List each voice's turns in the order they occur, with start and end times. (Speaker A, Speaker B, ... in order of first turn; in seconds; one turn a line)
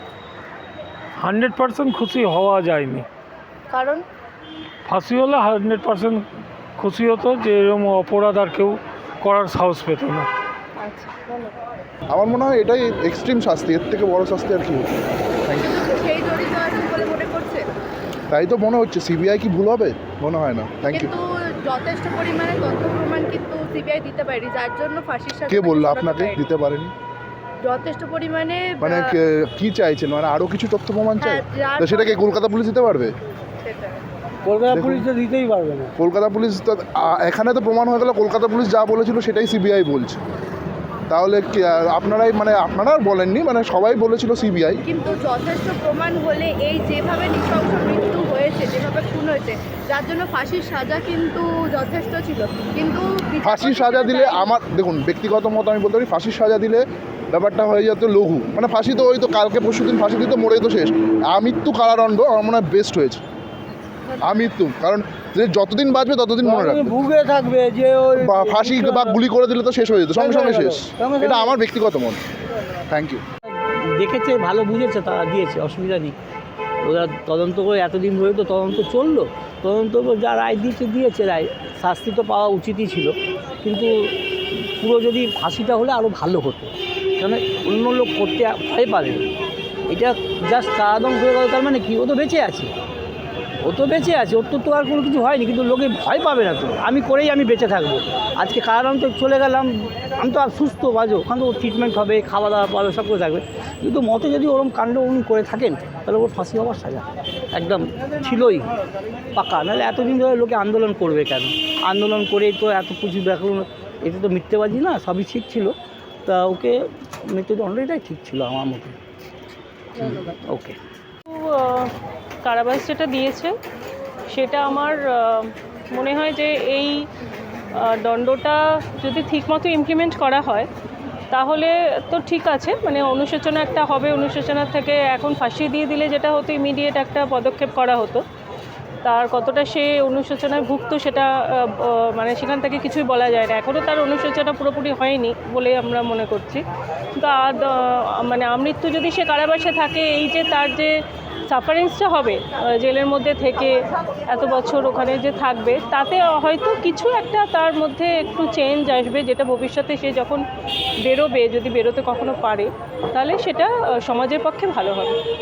Speaker A: 1.2-3.1
Speaker B: 3.7-4.0
Speaker A: 4.9-6.3
Speaker A: 6.8-10.3
Speaker B: 10.8-11.5
Speaker C: 12.1-15.9
Speaker B: 15.6-17.7
Speaker C: 18.3-21.1
Speaker B: 20.9-26.4
Speaker C: 25.5-26.9
Speaker B: 27.6-29.2
Speaker C: 28.8-33.1
Speaker B: 31.2-32.2
Speaker B: 33.6-34.0
Speaker D: 34.5-35.9
Speaker C: 34.7-35.1
Speaker C: 36.0-40.2
Speaker C: 41.1-44.8
Speaker B: 44.9-54.5
Speaker C: 53.4-63.2
Speaker C: 64.2-67.0
Speaker D: 66.4-69.2
Speaker C: 68.2-72.2
Speaker D: 70.2-71.6
Speaker C: 72.9-73.2
Speaker D: 74.0-76.2
Speaker D: 76.8-84.1
Speaker D: 84.8-89.2
Speaker D: 89.9-92.7
Speaker D: 93.7-108.7
Speaker D: 109.3-115.7
Speaker D: 116.3-116.8
Speaker D: 117.3-119.0
Speaker D: 120.0-120.8
Speaker E: 121.3-121.9
Speaker E: 122.4-123.5
Speaker E: 124.3-127.0
Speaker E: 127.8-130.7
Speaker E: 131.3-138.2
Speaker E: 139.0-146.6
Speaker E: 147.2-151.0
Speaker E: 151.5-160.4
Speaker E: 161.1-165.2